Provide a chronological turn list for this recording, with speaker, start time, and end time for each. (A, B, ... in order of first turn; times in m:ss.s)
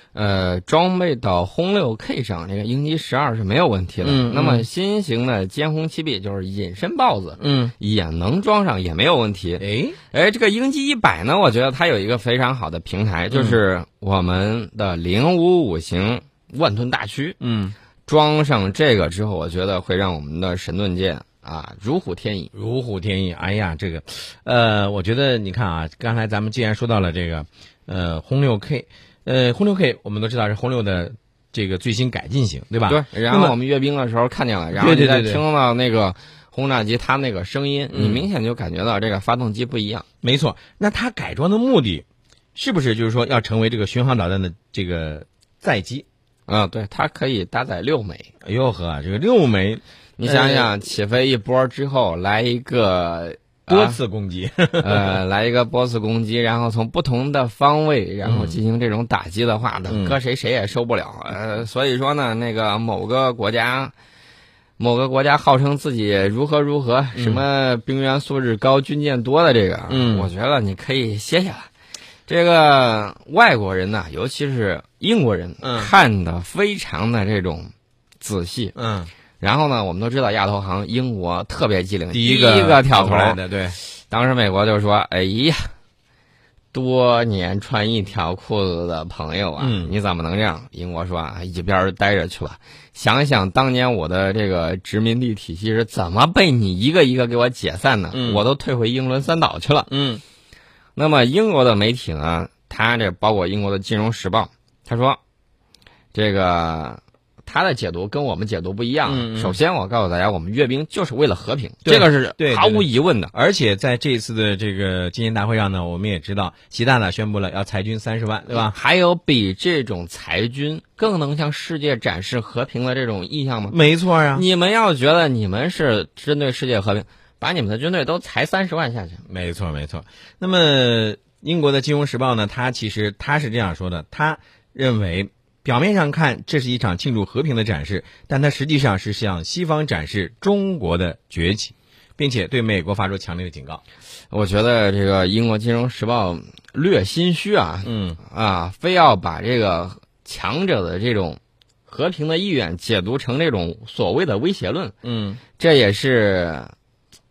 0:00.1-0:17.4 A
0:04.0-0:04.7 B
0:07.4-0:07.7 B
0:09.6-0:10.0 B
0:13.3-0:13.6 B
0:17.4-0:17.8 B
0:18.1-0:22.5 A
0:22.5-0:33.5 B
0:32.9-0:40.0 A
0:34.8-0:35.4 B
0:37.9-0:38.2 B
0:40.2-0:46.0 B
0:46.5-0:48.3 A
0:48.4-0:50.7 B
0:50.2-0:54.0 A
0:53.7-0:55.2 B
0:54.8-1:03.9 A
0:58.2-0:58.6 B
0:59.9-1:00.2 B
1:04.8-1:11.7 A
1:07.2-1:07.4 B
1:09.9-1:10.3 B
1:12.3-1:18.7 A
1:15.6-1:15.9 B
1:18.8-1:19.1 B
1:19.4-1:25.7 A
1:22.1-1:23.8 B
1:26.7-1:39.9 A
1:29.6-1:29.9 B
1:38.1-1:38.4 B
1:39.9-1:40.2 B
1:41.0-1:45.2 A
1:46.1-1:53.3 A
1:49.1-1:49.6 B
1:51.8-1:58.8 B
1:58.5-2:03.8 A
2:03.7-2:04.4 B
2:04.3-2:09.2 A
2:09.3-2:23.8 B
2:24.3-2:34.9 A
2:27.8-2:28.2 B
2:35.0-2:35.4 B
2:35.6-2:36.7 A